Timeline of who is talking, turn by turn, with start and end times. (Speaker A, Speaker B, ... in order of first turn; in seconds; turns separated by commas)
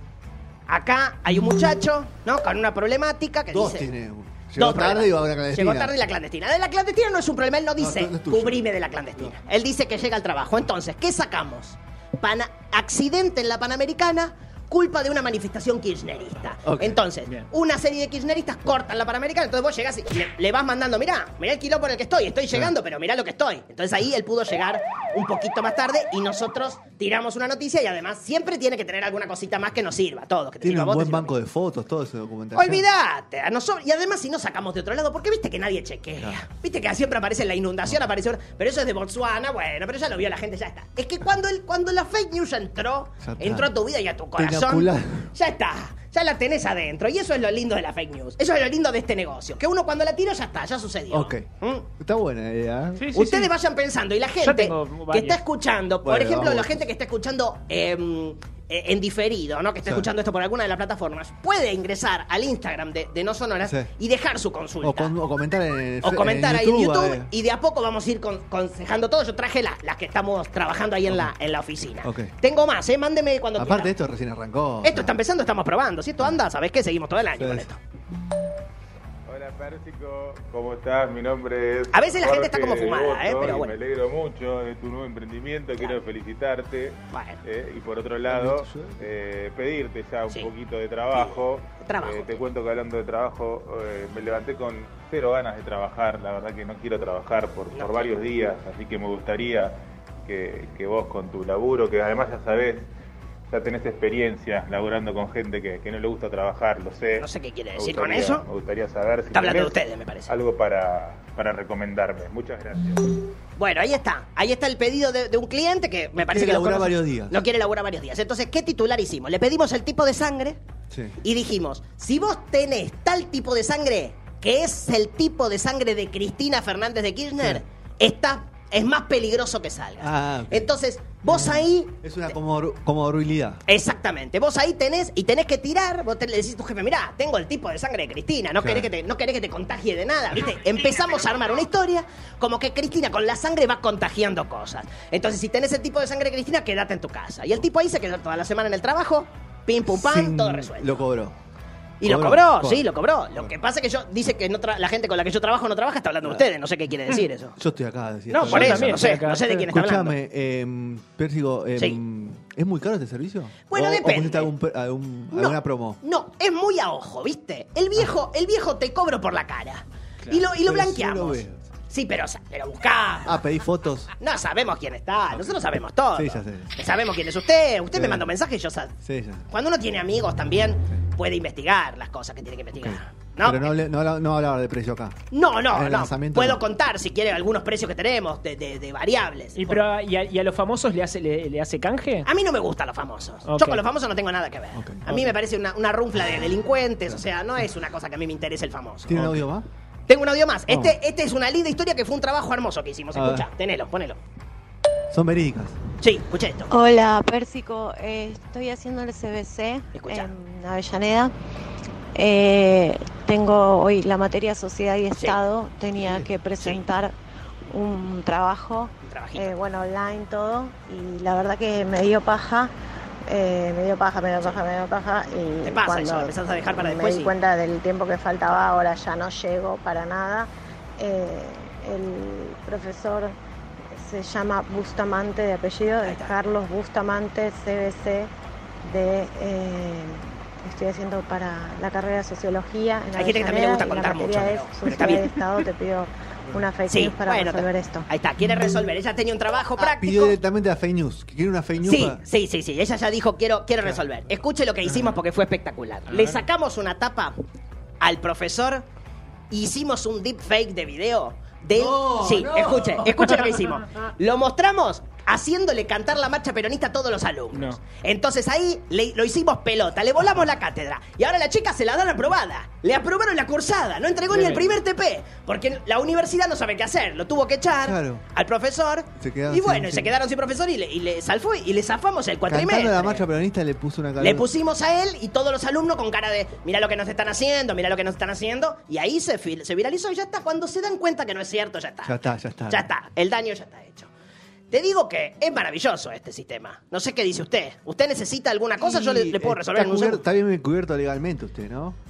Speaker A: 0.7-3.9, Speaker B: 3.5-6.0, Speaker A: 4.6-31.4, Speaker B: 7.8-9.3, Speaker B: 16.6-17.0, Speaker B: 30.6-32.9, Speaker A: 32.5-51.9, Speaker B: 36.2-36.4, Speaker B: 43.2-43.7, Speaker B: 44.4-45.3, Speaker B: 51.1-51.5, Speaker B: 52.0-53.0, Speaker C: 53.0-53.5, Speaker A: 53.1-65.1, Speaker C: 54.4-55.4, Speaker B: 56.0-56.8, Speaker B: 63.6-63.9, Speaker B: 64.8-67.3, Speaker A: 66.0-73.9, Speaker B: 72.0-72.3, Speaker B: 73.6-75.2, Speaker A: 74.8-77.8, Speaker B: 77.4-77.7, Speaker D: 79.3-99.7, Speaker A: 81.9-83.8, Speaker A: 87.1-87.4, Speaker B: 88.3-89.0, Speaker A: 91.1-92.4, Speaker A: 97.7-98.1, Speaker D: 100.3-102.9, Speaker D: 103.5-113.1, Speaker A: 107.2-108.5, Speaker A: 109.3-110.3, Speaker A: 113.6-120.6, Speaker B: 116.2-117.4, Speaker B: 120.9-121.2, Speaker A: 121.2-131.9, Speaker B: 130.0-133.6, Speaker A: 133.7-151.0, Speaker B: 138.6-138.9, Speaker B: 149.9-151.4, Speaker A: 152.0-157.6, Speaker B: 152.0-153.6, Speaker B: 157.6-166.0, Speaker A: 158.3-160.2, Speaker C: 158.4-159.7, Speaker A: 163.7-164.5, Speaker A: 165.3-173.4, Speaker B: 170.3-171.7, Speaker B: 173.2-174.1, Speaker A: 174.2-178.9, Speaker B: 175.3-175.6, Speaker B: 176.1-176.7, Speaker B: 177.9-178.3, Speaker B: 179.0-179.5, Speaker A: 179.5-183.7, Speaker B: 182.8-185.2, Speaker A: 185.3-189.8, Speaker B: 185.7-186.6, Speaker C: 189.6-192.3, Speaker A: 192.2-199.4, Speaker C: 193.4-193.8, Speaker B: 194.8-195.1, Speaker B: 196.2-196.5, Speaker B: 199.1-199.7, Speaker A: 200.1-204.2, Speaker B: 200.7-201.0, Speaker B: 203.1-203.5, Speaker B: 205.1-205.8, Speaker A: 206.0-206.7, Speaker E: 206.7-211.3, Speaker A: 209.9-210.3, Speaker E: 212.2-217.2, Speaker A: 215.2-215.4, Speaker A: 216.1-216.8, Speaker E: 217.7-222.7, Speaker A: 219.0-219.6, Speaker E: 223.3-233.4, Speaker A: 225.6-227.3, Speaker E: 233.9-238.3, Speaker A: 236.0-236.3, Speaker E: 238.8-248.1, Speaker A: 243.2-245.4, Speaker A: 246.9-250.4, Speaker B: 249.8-252.2, Speaker A: 251.8-257.4, Speaker C: 256.1-256.4, Speaker A: 258.0-258.9, Speaker A: 259.5-283.2, Speaker B: 261.7-263.4, Speaker C: 267.5-267.8, Speaker C: 274.3-274.7, Speaker B: 277.8-278.2, Speaker B: 279.2-280.2, Speaker B: 282.5-284.5, Speaker A: 284.2-294.1, Speaker B: 292.0-292.9, Speaker A: 294.7-300.2, Speaker B: 298.8-302.0